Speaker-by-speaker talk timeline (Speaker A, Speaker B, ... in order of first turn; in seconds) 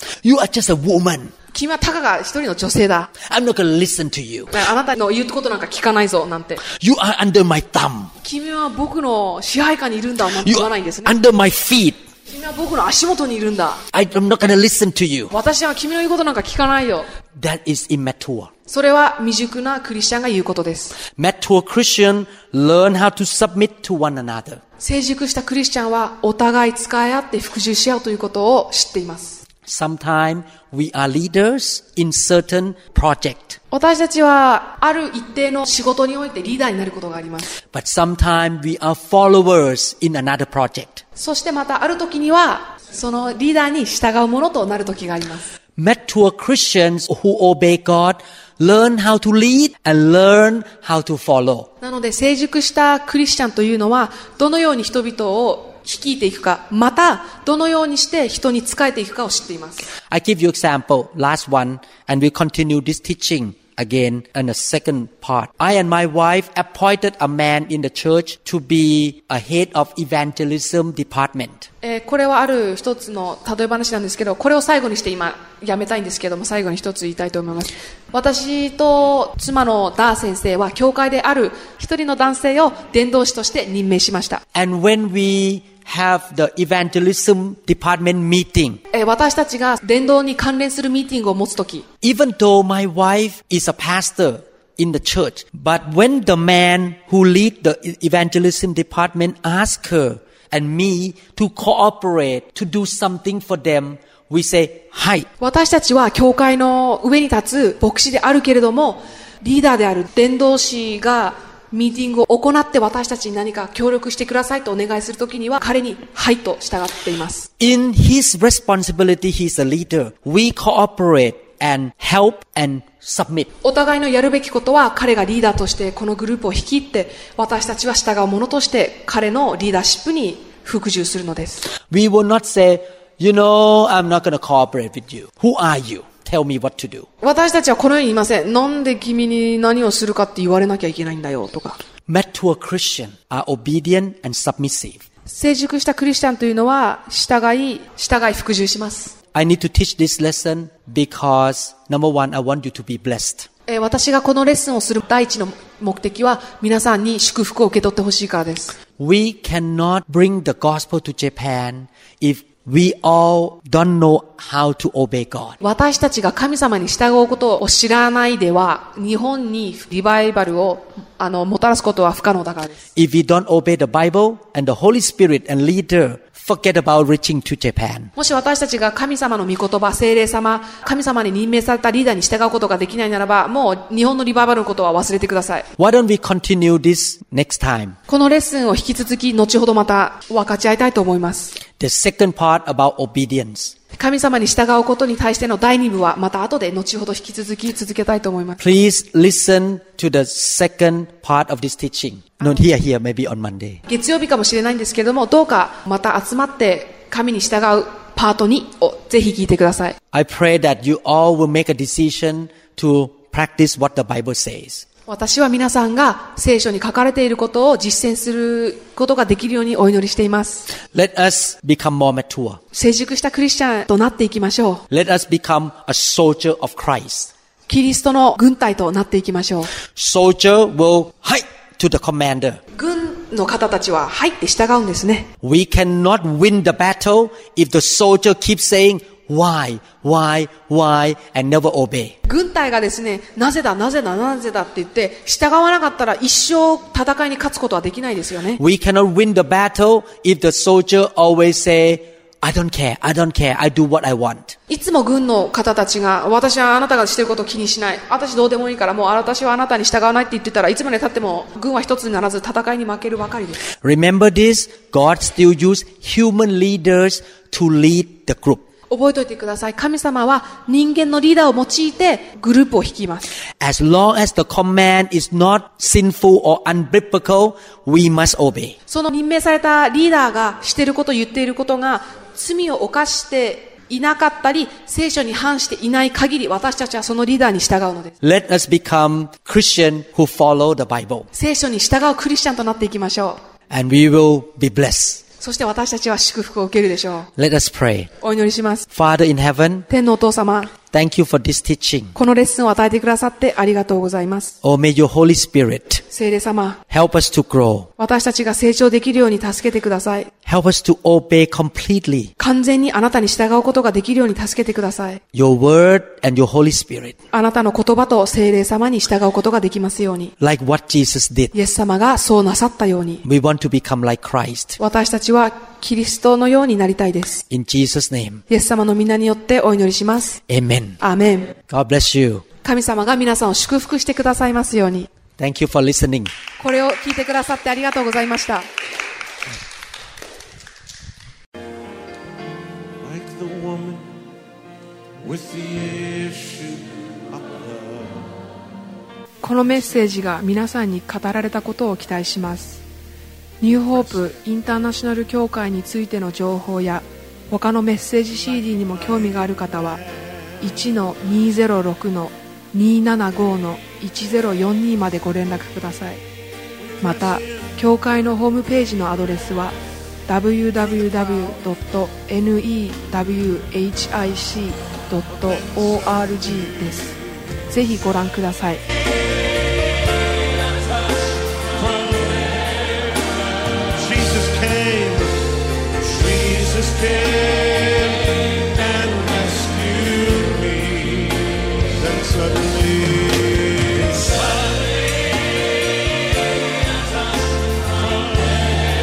Speaker A: 0.2-1.3, 3.2-4.5, 6.6-8.1, 10.4-12.0, 13.9-15.3, 17.4-18.5, 21.1-24.6, 29.6-33.6, 37.7-41.0, 45.8-51.7, 60.1-71.7, 84.5-88.8, 92.0-105.3, 117.6-123.5, 131.8-137.1, 142.1-145.0, 149.3-153.5, 159.0-165.6, 172.9-178.1, 185.8-188.0, 191.8-193.7, 198.6-203.8, 210.1-214.8, 220.9-222.6, 224.9-227.3, 229.9-232.6, 235.4-242.1, 248.6-254.5, 263.8-268.6, 273.6-278.8, 288.2-291.3, 293.7-295.2, 297.4-298.1, 298.9-299.9, 300.9-302.1, 304.6-306.0, 306.9-307.9, 310.4-312.3, 315.3-317.1, 320.4-321.5, 323.2-324.8, 327.5-328.4, 330.5-331.0, 331.6-332.4, 335.4-336.3
Speaker B: 1.5-3.1, 4.5-6.6, 8.2-11.2, 12.3-13.8, 15.3-17.1, 18.7-21.0, 24.8-29.4, 33.7-37.5, 41.1-45.5, 51.8-59.9, 71.8-84.4, 88.9-91.8, 105.4-117.5, 123.6-131.7, 137.2-141.8, 145.3-149.1, 153.7-158.8, 165.6-172.8, 178.2-185.7, 188.1-191.6, 193.9-198.6, 203.9-209.9, 215.1-220.7, 222.7-224.8, 227.7-229.7, 232.7-235.3, 242.2-248.6, 254.7-263.6, 268.9-273.3, 278.9-288.1, 291.3-293.4, 295.4-297.3, 298.2-298.9, 299.9-300.7, 302.1-304.5, 306.1-306.8, 308.0-310.3, 312.4-315.2, 317.3-320.3, 321.5-323.2, 324.8-327.4, 328.5-330.4, 331.0-331.5, 332.6-335.1, 336.6-338.7, 349.4-352.8, 353.6-360.0, 360.6-366.2, 367.0-377.1, 377.7-378.8
Speaker C: 343.0-344.2, 345.2-348.3, 381.7-382.8, 383.9-385.5, 386.0-394.8, 398.2-398.6